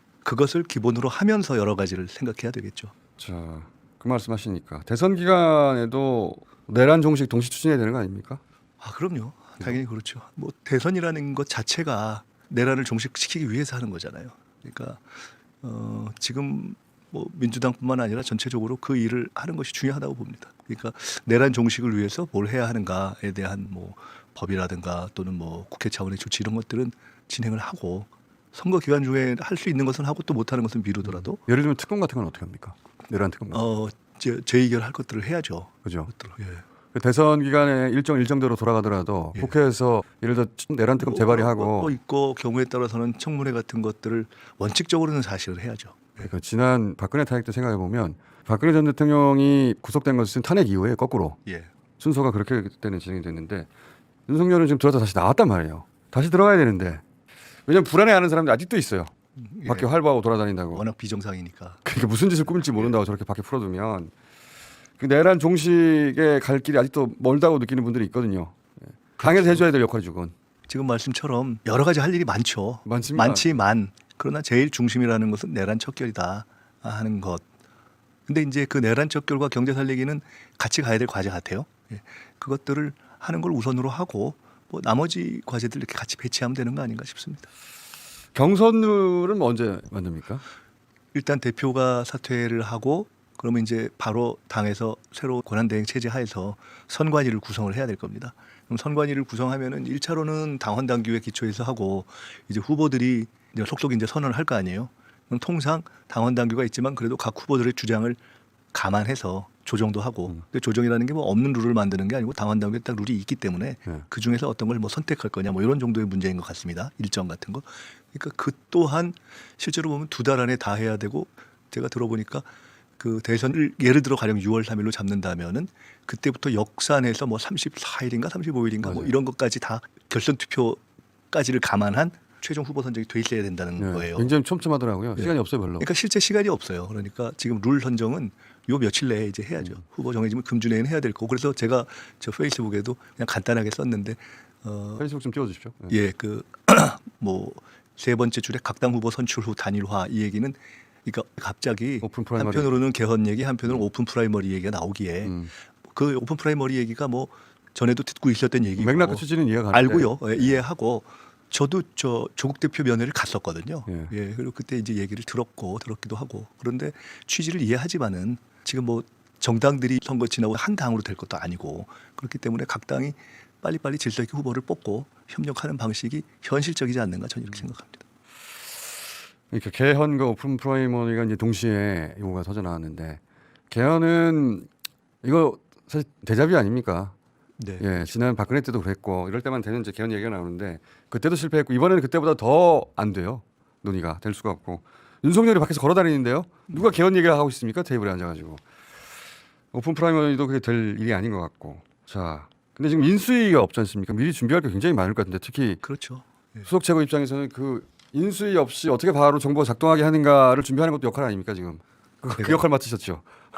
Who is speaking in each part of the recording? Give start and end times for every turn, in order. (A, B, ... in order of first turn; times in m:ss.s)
0:00.2-0:02.9 A
0:03.2-0:08.4 B
0:08.8-0:31.4 A
0:31.0-0:33.6 B
0:33.5-0:36.6 A
0:35.8-0:36.1 B
0:36.9-0:41.9 B
0:41.0-0:46.3 A
0:46.2-0:51.4 B
0:51.4-0:51.7 A
0:52.0-0:53.7 B
0:54.3-0:57.0 B
0:57.7-0:59.1 B
0:59.4-0:59.9 A
0:59.7-1:00.8 B
1:00.7-1:01.8 A
1:01.8-1:04.1 B
1:05.0-1:10.3 B
1:09.2-1:09.6 A
1:10.7-1:17.4 A
1:12.8-1:13.6 B
1:18.3-1:27.5 A
1:28.3-1:30.4 B
1:31.1-1:48.2 A
1:48.7-2:02.5 A
2:03.0-2:14.3 A
2:08.8-2:09.1 B
2:13.8-2:15.9 B
2:15.2-2:25.0 A
2:25.0-2:25.9 B
2:25.9-2:35.3 A
2:32.0-2:32.7 B
2:35.2-2:35.5 B
2:35.9-2:58.0 A
2:38.8-2:40.6 B
2:43.9-2:44.1 B
2:59.5-3:04.7 B
3:05.2-3:07.1 B
3:07.6-3:08.1 A
3:07.8-3:18.6 B
3:19.7-3:25.8 B
3:25.8-3:26.7 A
3:26.6-3:33.2 B
3:32.3-3:32.6 A